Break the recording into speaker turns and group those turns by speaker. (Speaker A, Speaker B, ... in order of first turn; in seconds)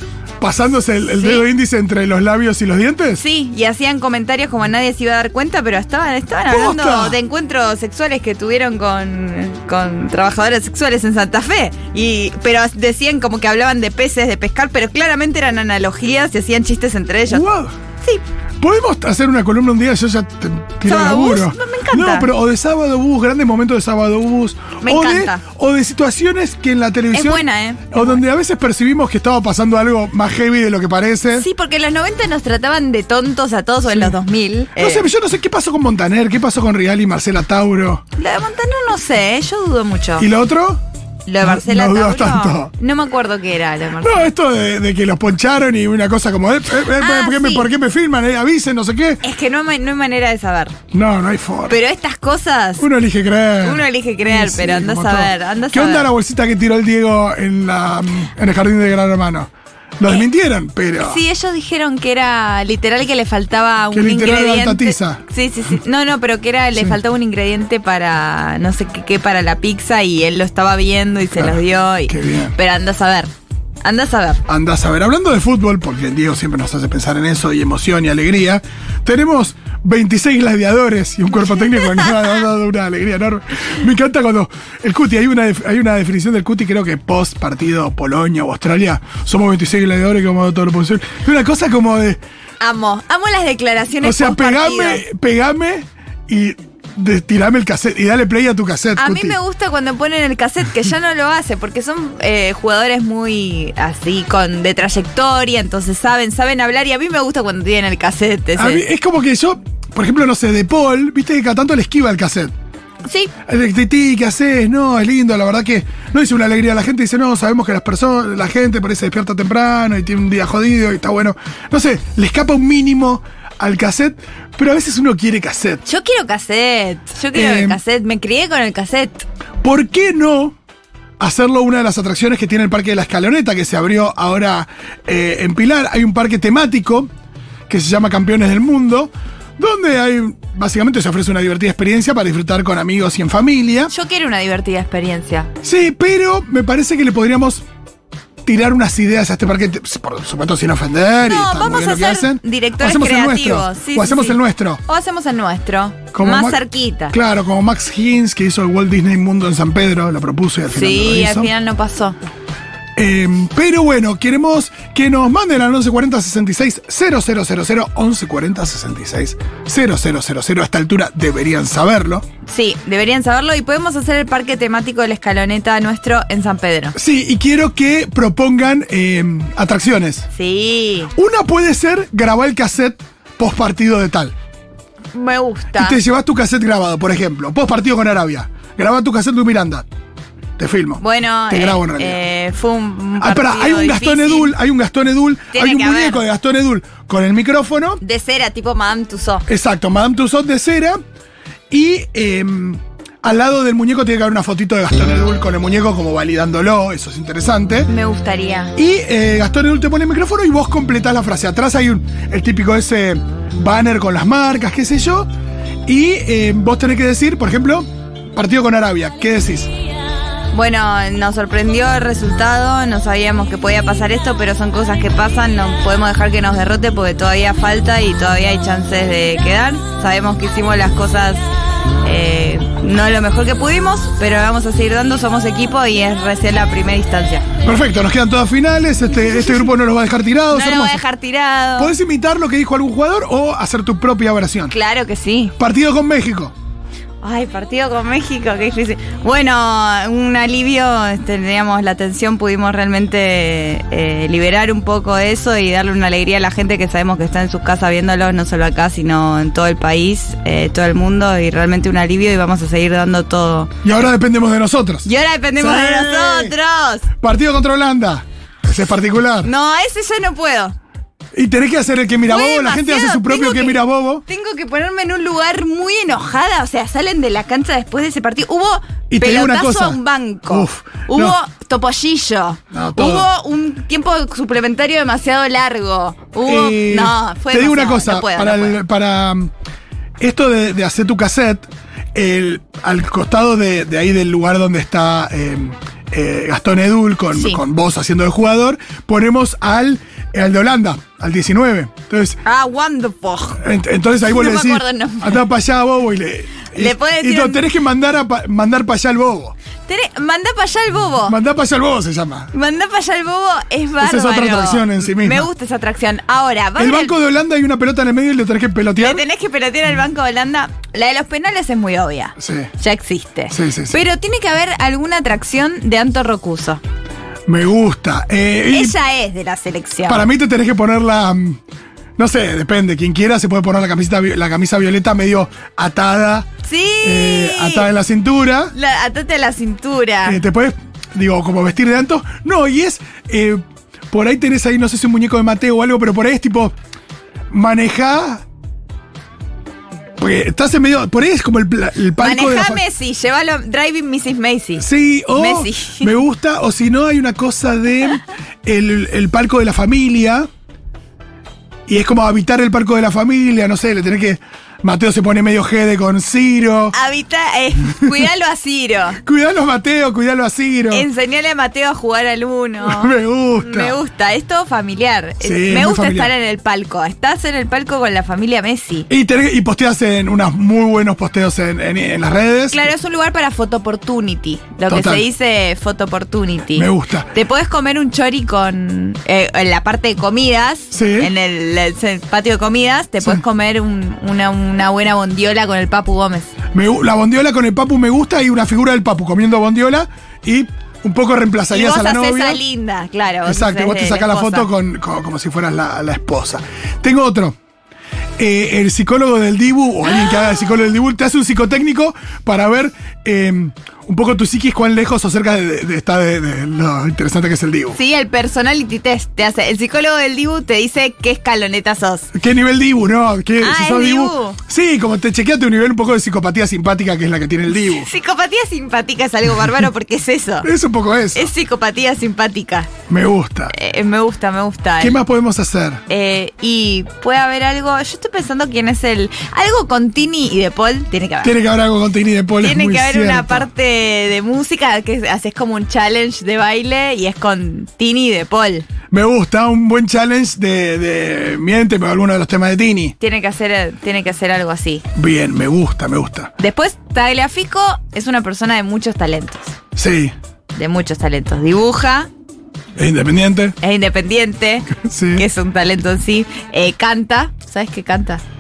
Speaker A: 0.4-3.2, 6.5-7.2, 17.3-17.7, 18.6-31.5, 33.9-34.2, 34.8-38.0, 40.2-40.8, 41.4-42.7, 44.0-49.2, 50.9-51.8, 52.8-61.2, 63.9-65.2, 71.3-72.5, 74.5-92.2, 94.0-99.3, 108.5-112.5, 113.5-125.8, 127.3-127.8, 129.6-130.6, 131.2-137.1, 137.7-143.9, 145.6-147.6, 148.4-154.8, 156.1-161.5, 162.9-172.2, 176.9-180.3, 181.2-184.3, 185.8-189.8, 190.6-192.2, 193.2-198.0, 199.5-201.0, 201.7-207.9, 208.8-215.3, 215.8-219.7, 237.6-241.0, 241.8-244.7, 245.6-246.5, 263.8-266.5, 267.2-269.5, 271.3-274.2, 279.1-281.4, 282.7-283.3, 286.4-289.5, 290.2-302.4, 303.6-309.5, 311.2-312.5, 314.0-315.5, 316.8-319.2, 322.4-322.7, 323.5-324.0, 327.5-328.9, 330.1-331.6, 332.2-336.5, 337.0-338.7, 340.2-346.7, 347.5-348.4, 350.2-352.8, 354.8-360.5, 361.9-366.9, 369.2-371.1, 372.8-374.0, 375.4-376.3, 379.1-382.9, 384.9-385.2, 386.7-387.3, 390.9-391.3, 396.7-402.6, 403.4-407.6, 408.4-418.0, 422.3-428.1, 430.6-431.5, 433.1-433.7, 435.0-436.0, 441.4-443.7, 449.1-453.1, 455.1-456.5, 459.9-460.3, 462.9-463.7, 464.9-465.4
Speaker B: 1.1-1.4, 3.1-17.4, 20.9-22.3, 24.8-25.4, 27.1-28.2, 31.4-35.0, 38.2-40.2, 41.2-44.3, 47.0-47.7, 49.2-50.8, 51.7-52.9, 53.6-56.1, 61.0-73.3, 73.8-74.4, 92.6-95.0, 99.0-108.8, 125.8-129.2, 143.9-145.5, 151.2-157.2, 160.7-162.2, 172.4-176.9, 180.3-181.1, 185.1-186.0, 191.0-194.5, 195.5-196.2, 198.0-199.4, 207.9-208.8, 220.5-231.4, 232.0-237.5, 239.2-239.7, 240.5-241.9, 244.7-245.5, 247.2-263.7, 265.0-267.1, 269.4-270.7, 272.2-288.8, 297.3-297.6, 302.4-303.6, 304.2-305.4, 306.7-307.6, 309.9-311.4, 312.5-317.1, 319.0-326.8, 328.7-330.2, 336.6-337.9, 338.7-340.4, 352.2-356.2, 366.9-369.2, 370.9-379.1, 382.7-396.5, 401.7-404.7, 410.2-410.6, 417.9-422.3, 423.6-424.6, 427.9-430.7, 431.3-432.9, 433.7-435.2, 436.1-441.6, 442.6-448.9, 453.2-455.0, 456.6-459.8, 460.7-462.3, 463.8-468.4